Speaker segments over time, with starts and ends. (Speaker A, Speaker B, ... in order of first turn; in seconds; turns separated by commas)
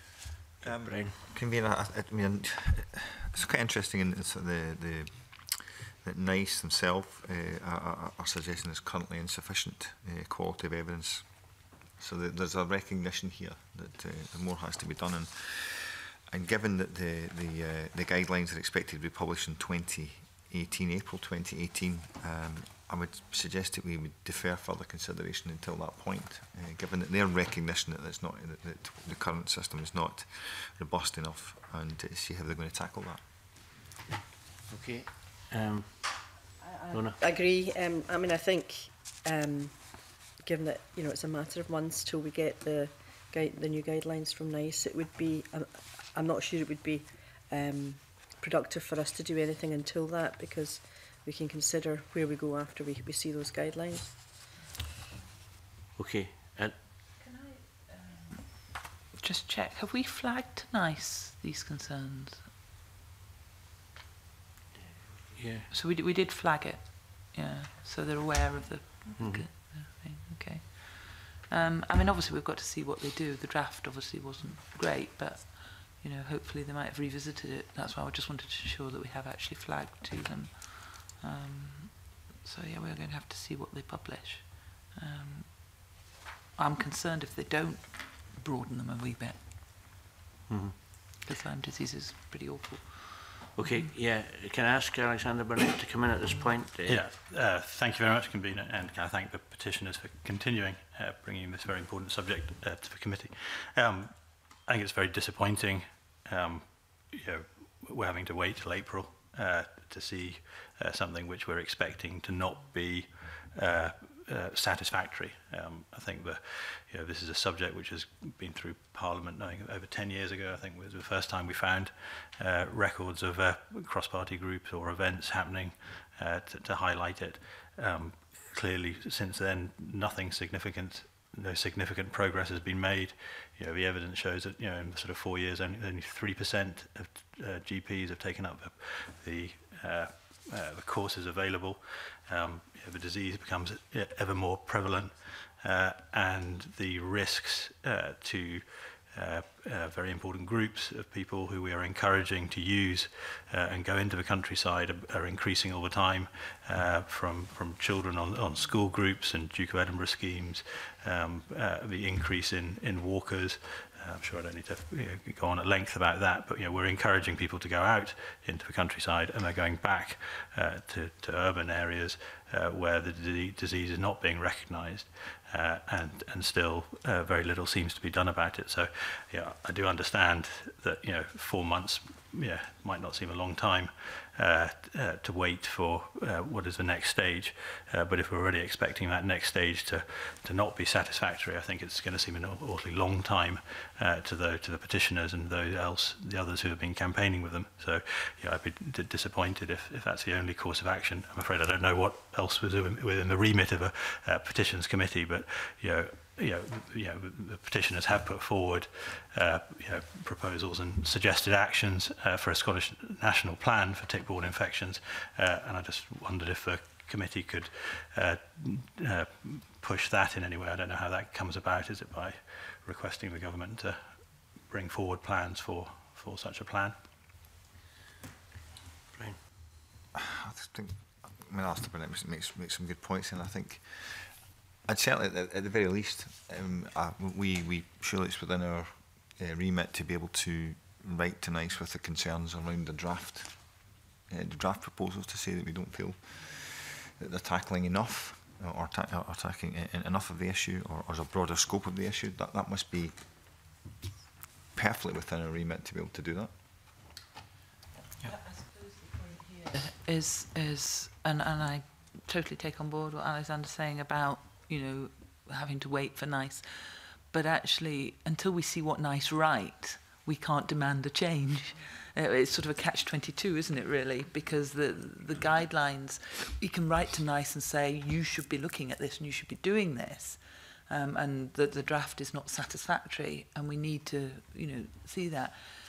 Speaker A: 0.6-33.2, Speaker B: 0.6-1.1, Speaker B: 34.7-36.3, Speaker C: 36.6-54.4, Speaker B: 36.9-37.2, Speaker B: 56.0-56.8, Speaker D: 57.2-62.5, Speaker B: 65.3-65.7, Speaker D: 65.7-86.0, Speaker B: 69.2-69.5, Speaker D: 86.5-89.4, Speaker B: 90.5-90.8, Speaker D: 91.2-93.8, Speaker B: 93.5-97.0, Speaker E: 96.8-226.9, Speaker A: 230.1-253.2, Speaker A: 254.7-256.5, Speaker D: 258.3-285.6